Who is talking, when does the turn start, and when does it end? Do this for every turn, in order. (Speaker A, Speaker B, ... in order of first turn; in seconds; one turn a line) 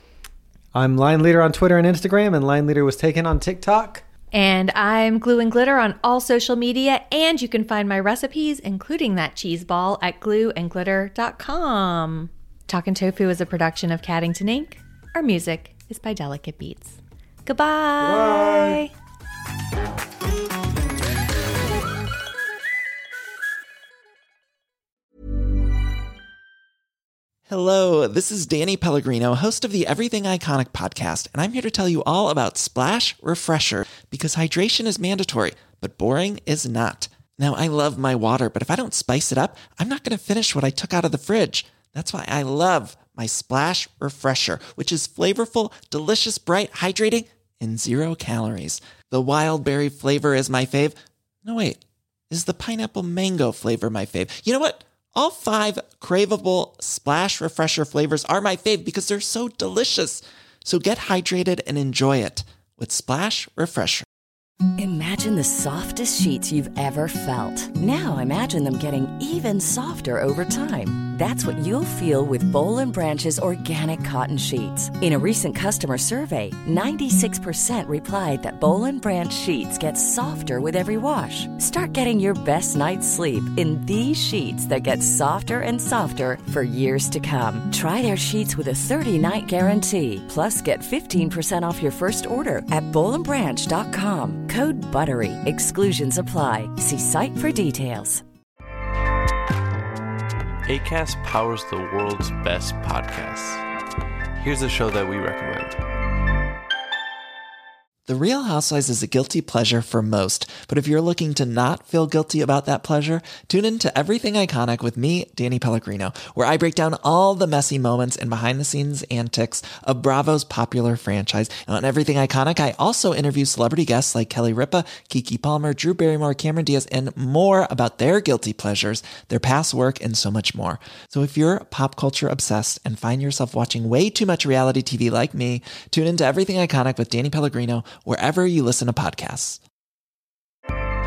Speaker A: 0.7-4.0
Speaker B: 4.3-18.9
Speaker A: 18.0-18.8
Speaker C: 27.5-64.1
Speaker D: 64.8-98.2
Speaker E: 100.7-103.6
Speaker E: 104.4-105.8
Speaker C: 108.1-139.6